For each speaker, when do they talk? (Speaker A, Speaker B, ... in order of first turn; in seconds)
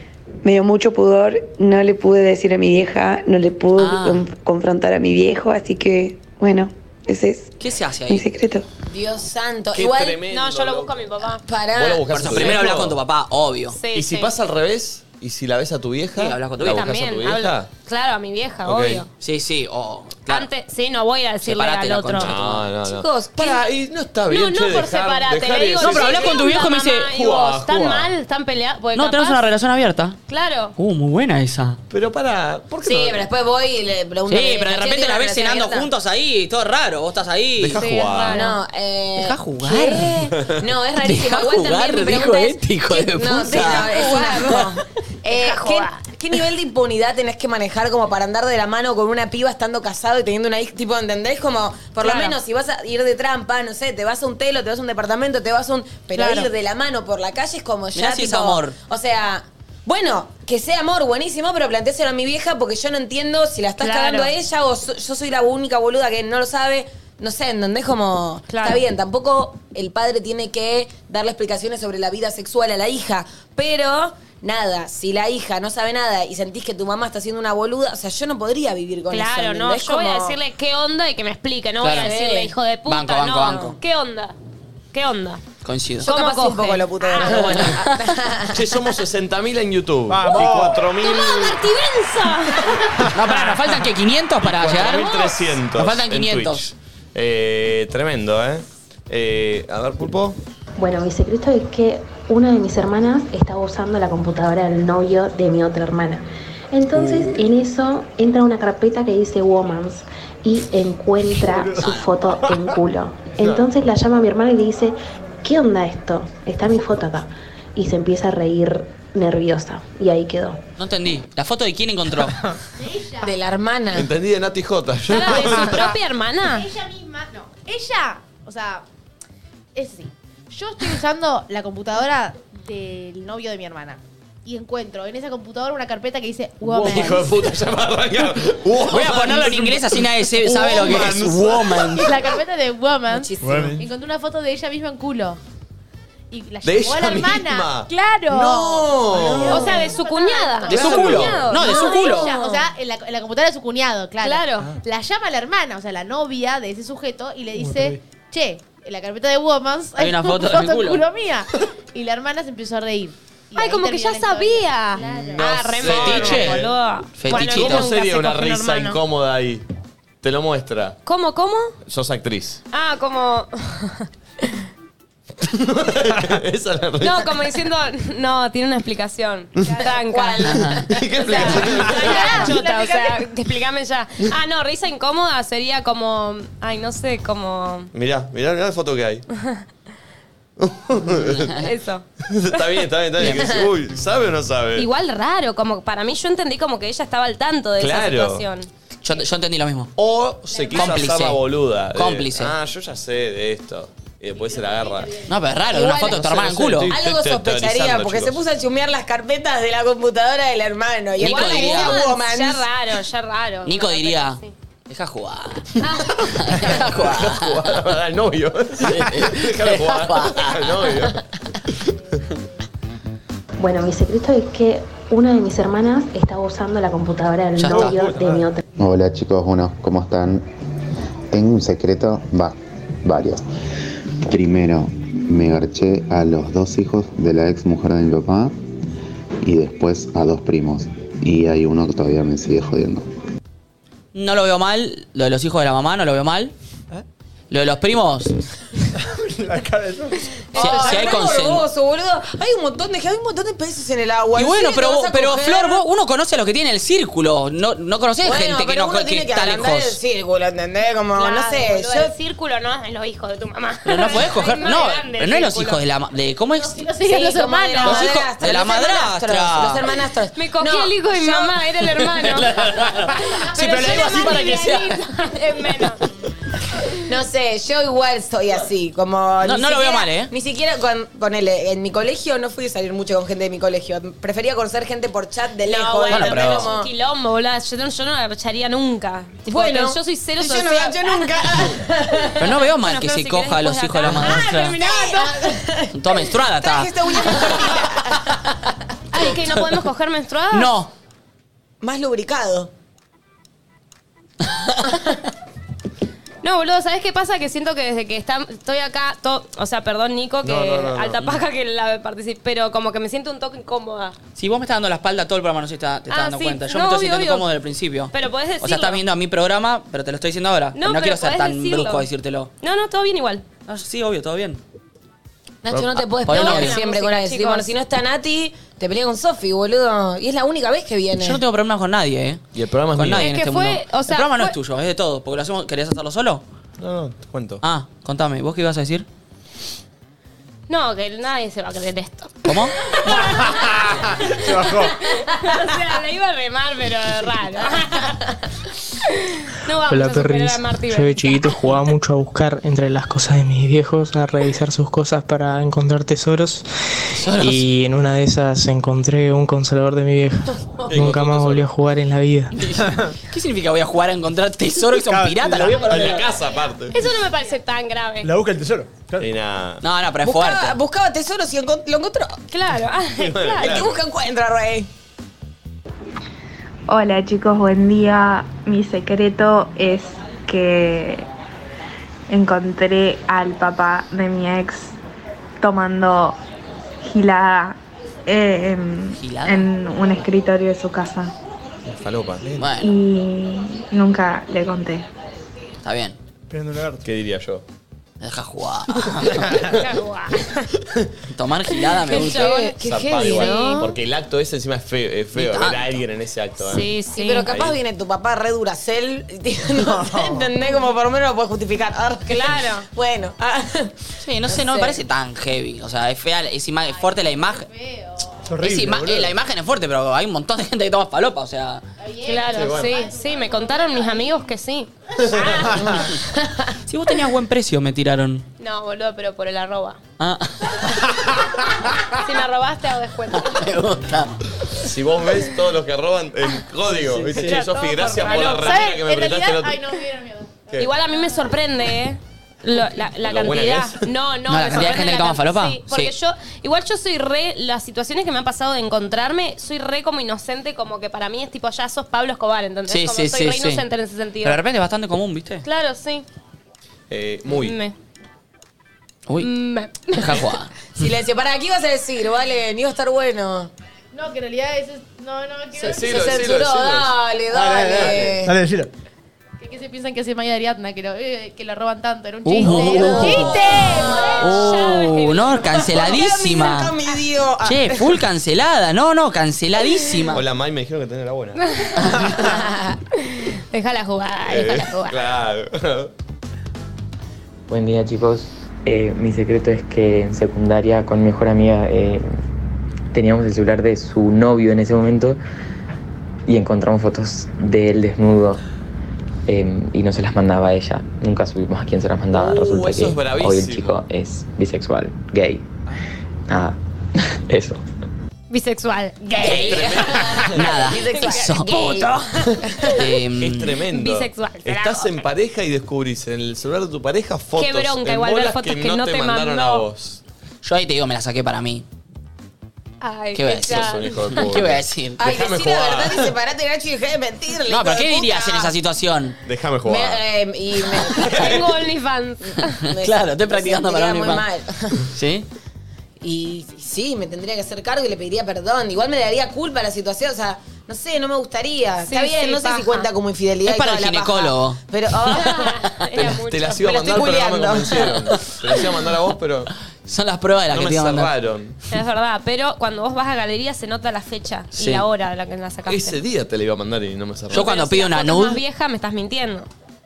Speaker A: 0.4-7.5, 8.1-8.7
Speaker B: 3.8-4.3, 7.6-8.3, 12.1-13.8, 16.1-16.9, 19.2-20.5, 21.4-22.7, 25.8-27.1, 28.9-30.2, 30.8-31.8, 34.3-37.9, 39.1-40.3, 41.0-44.7, 57.9-58.8, 81.8-82.1, 82.8-83.7, 85.6-86.1, 87.2-88.1, 93.1-96.7, 111.8-112.2, 120.8-122.4, 136.6-136.9, 138.8-142.2, 150.7-152.4, 160.0-161.0, 165.8-167.9, 180.4-180.8, 191.2-191.7, 199.0-199.9, 200.7-202.6, 205.2-206.9, 211.2-212.1, 213.6-217.7, 218.8-221.2, 227.6-227.9, 244.1-246.5, 247.5-248.4, 250.5-251.7, 254.3-260.0, 263.8-266.9, 267.8-269.9, 271.8-275.1, 279.4-280.3, 286.1-286.7, 292.4-294.8, 295.9-297.5, 300.5-300.9, 314.3-322.5, 323.6-324.6, 326.2-326.8, 331.1-332.4, 332.9-336.4, 337.6-339.1, 342.4-342.8, 357.1-357.7, 362.5-366.2, 369.8-370.8, 389.2-389.7, 392.6-392.9, 395.8-396.2, 398.2-399.5, 401.3-402.5, 405.3-406.0, 414.2-417.7, 418.6-421.8, 426.9-428.4, 430.2-431.1, 433.3-434.4, 437.2-437.6, 444.5-446.1, 452.9-453.8, 454.4-455.6, 459.3-459.5, 460.1-460.7, 472.4-473.6, 474.4-476.9, 477.6-480.4, 509.4-509.9, 510.5-512.0, 513.0-513.8, 520.6-521.8, 523.3-525.3, 527.6-529.4, 532.8-534.5, 535.1-535.5, 543.6-544.8, 550.0-551.3, 554.7-555.1, 557.5-558.6
Speaker C: 8.9-10.2, 11.4-12.2, 32.8-35.9, 38.3-80.4, 81.9-82.5, 83.5-83.8, 86.0-88.6, 123.2-124.1, 143.1-143.8, 180.0-181.4, 193.2-193.7, 205.7-206.2, 206.9-212.7, 250.5-255.8, 258.2-262.1, 267.0-271.6, 277.0-286.9, 289.4-292.5, 294.8-298.7, 301.8-302.7, 325.6-331.4, 370.2-372.4, 373.6-374.9, 402.2-403.5, 407.1-413.9, 414.5-415.0, 425.9-426.7, 460.9-463.7, 465.8-468.5, 473.3-474.5, 475.8-478.2, 482.3-482.9, 509.5-512.9, 525.2-528.7, 529.8-531.5, 532.9-535.0, 536.2-545.8, 546.8-548.3
Speaker D: 9.7-11.0, 11.7-13.0, 13.9-17.7, 18.6-19.0, 22.2-26.5, 27.1-28.1, 31.9-33.3, 37.6-38.5, 88.5-91.6, 94.4-100.4, 123.9-125.9, 136.7-142.1, 146.6-149.8, 150.7-151.5, 165.1-166.7, 167.3-169.6, 170.2-171.0, 171.8-172.6, 175.5-177.4, 180.8-182.5, 187.9-189.2, 190.6-191.6, 192.2-194.9, 197.8-198.5, 199.9-205.2, 206.1-208.4, 216.1-222.0, 310.4-311.2, 325.7-326.0, 332.5-333.3, 336.8-337.6, 360.9-361.7, 365.8-366.9, 369.2-369.8, 373.3-373.9, 391.8-392.7, 397.0-397.6, 402.8-406.9, 407.5-407.8, 422.5-422.9, 425.2-425.5, 434.7-439.9, 443.1-444.1, 457.1-457.8, 465.8-467.1, 480.3-481.6, 484.4-486.1, 502.3-504.0, 509.4-510.7, 513.4-520.2, 523.7-526.3, 529.4-530.2, 531.1-531.6, 546.1-549.7, 550.7-551.8, 555.9-557.7
Speaker E: 10.3-11.4, 13.7-14.3, 16.7-19.1, 20.3-22.3, 22.9-23.6, 24.3-29.4, 30.3-30.7, 37.8-38.6, 43.6-44.7, 45.3-46.0, 52.0-52.4, 56.1-56.5, 63.8-64.3, 68.5-68.8, 79.1-84.4, 84.9-85.4, 86.0-87.7, 91.0-92.9, 125.1-126.7, 149.5-152.7, 154.2-154.7, 163.5-169.0, 171.0-171.7, 172.7-174.1, 177.0-180.5, 181.2-187.9, 191.6-192.6, 194.8-198.7, 211.2-214.5, 215.8-216.1, 261.1-265.8, 270.3-276.0, 285.6-291.7, 292.6-295.5, 299.1-300.7, 306.4-314.1, 316.1-317.5, 318.1-319.0, 320.7-322.1, 322.6-323.4, 326.2-327.7, 333.1-334.5, 340.7-348.2, 349.0-351.6, 366.9-368.3, 372.5-373.9, 399.5-400.7, 401.9-403.9, 406.7-407.5, 412.3-412.9, 422.2-425.8, 428.6-430.0, 432.1-433.6, 437.4-438.9, 440.8-454.6, 455.6-456.2, 457.5-457.9, 459.4-460.5, 473.1-475.7, 481.8-482.6, 483.2-485.2, 508.5-510.4, 511.0-513.0, 513.9-515.2, 517.6-519.9, 523.0-524.5, 531.2-532.8, 542.0-543.1, 545.3-547.3, 551.9-556.2, 557.5-559.7
Speaker F: 90.1-90.9, 92.7-93.3, 111.4-111.8, 112.4-112.7, 143.4-143.8, 157.6-158.0, 227.7-228.4, 248.9-251.1, 343.2-344.9, 362.8-363.1, 365.0-366.2, 368.2-369.3, 396.5-397.1, 409.8-410.4, 418.4-419.3, 467.5-468.9
Speaker G: 100.8-120.6, 223.6-228.6
Speaker H: 122.8-123.4, 126.4-128.8, 129.7-137.4, 142.0-145.4, 146.3-150.9, 151.5-165.4, 181.3-183.3, 200.5-201.1, 204.3-205.4, 266.6-268.0, 273.3-274.8, 416.9-418.6, 422.0-424.4, 438.2-440.7, 464.1-466.4, 469.6-474.4
Speaker I: 228.8-230.5, 231.3-233.4, 234.2-238.6, 239.4-243.1
Speaker J: 349.9-356.7, 357.4-362.6
Speaker K: 376.9-381.2, 382.3-385.0, 385.6-386.4, 387.0-391.3, 392.8-395.1
Speaker L: 487.7-492.4, 493.1-495.4, 496.5-498.6, 499.4-505.7, 506.5-507.8